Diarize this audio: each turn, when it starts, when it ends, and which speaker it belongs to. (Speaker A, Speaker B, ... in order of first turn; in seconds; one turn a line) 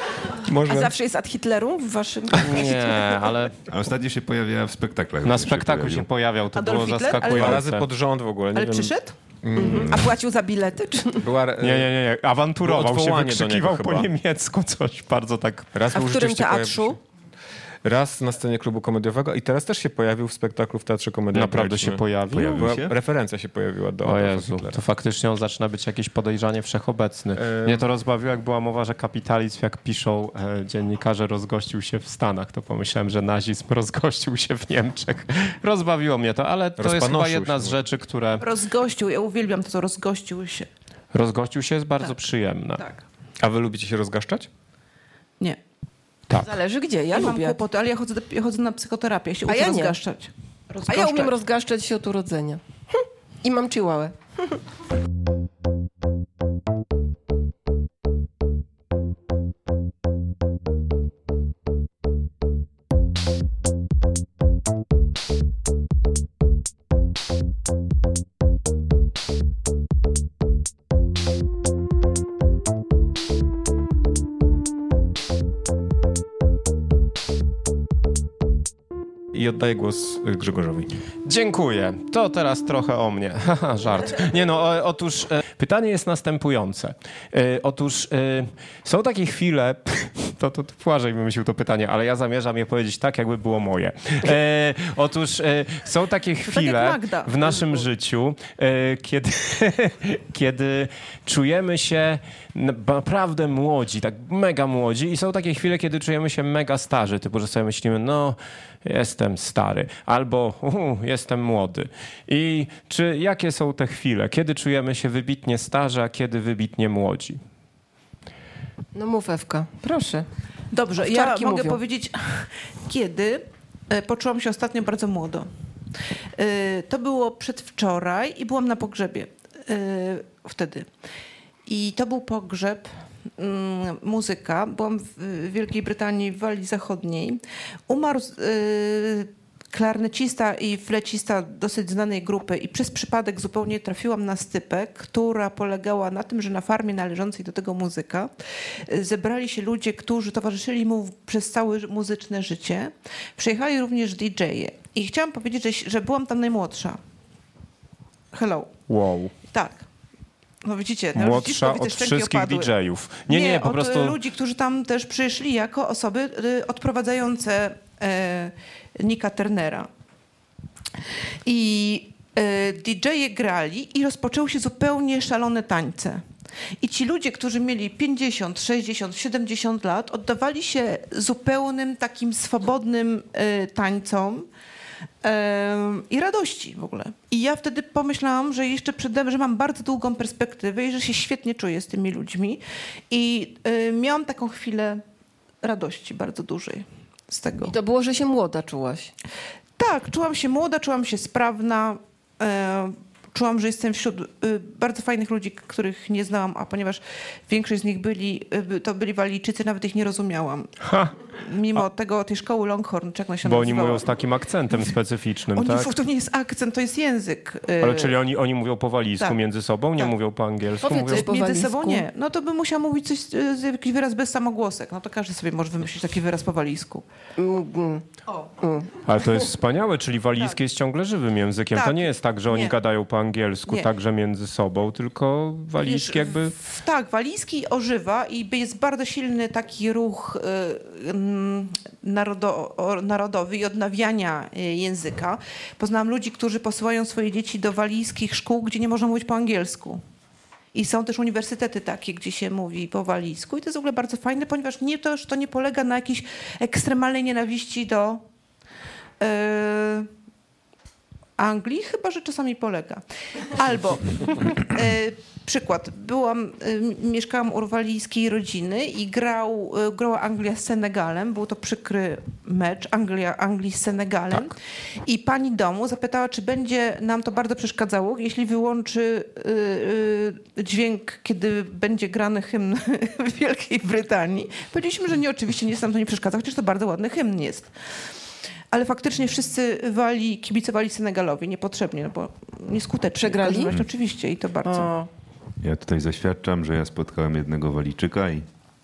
Speaker A: 0.3-0.9
Speaker B: 0.7-3.2
Speaker C: 2.4-3.6
Speaker D: 3.7-6.1
Speaker C: 5.2-7.9
Speaker E: 6.5-7.6
Speaker A: 7.3-10.0
Speaker E: 8.5-9.2
Speaker B: 9.6-11.3
Speaker A: 11.2-11.9
Speaker C: 11.6-15.7
Speaker A: 12.6-14.1
Speaker A: 15.7-17.0
Speaker B: 15.9-17.0
Speaker A: 17.8-24.8
Speaker C: 21.3-22.7
Speaker D: 22.3-22.9
Speaker C: 24.0-38.5
Speaker A: 27.4-27.9
Speaker A: 36.8-37.8
Speaker E: 38.4-40.7
Speaker C: 41.1-42.9
Speaker A: 43.4-44.5
Speaker B: 46.3-47.6
Speaker E: 47.1-51.3
Speaker B: 49.5-50.0
Speaker B: 50.9-54.2
Speaker A: 79.3-80.9
Speaker C: 81.2-117.4
Speaker E: 96.5-97.8
Speaker B: 119.0-120.3
Speaker E: 120.7-125.5
Speaker B: 121.0-121.8
Speaker E: 126.4-130.9
Speaker E: 131.7-148.3
Speaker E: 148.9-157.0
Speaker E: 158.3-158.8
Speaker C: 158.9-159.3
Speaker E: 159.5-159.8
Speaker E: 160.6-162.7
Speaker C: 161.2-164.2
Speaker E: 163.3-169.9
Speaker E: 171.5-176.2
Speaker E: 176.8-184.5
Speaker E: 185.2-195.0
Speaker E: 195.6-197.8
Speaker B: 197.6-199.1
Speaker E: 199.8-210.7
Speaker C: 210.8-211.2
Speaker E: 211.3-214.1
Speaker C: 213.4-215.9
Speaker E: 215.6-218.2
Speaker C: 217.8-221.3
Speaker B: 220.8-222.1
Speaker E: 221.1-227.1
Speaker B: 227.4-228.1
Speaker B: 228.6-229.0
Speaker C: 229.1-236.5
Speaker E: 231.7-232.8
Speaker E: 235.8-250.0
Speaker E: 250.7-258.2
Speaker E: 259.2-260.1
Speaker E: 261.4-287.7
Speaker E: 288.7-294.9
Speaker B: 293.2-293.8
Speaker B: 294.6-295.1
Speaker D: 295.6-298.5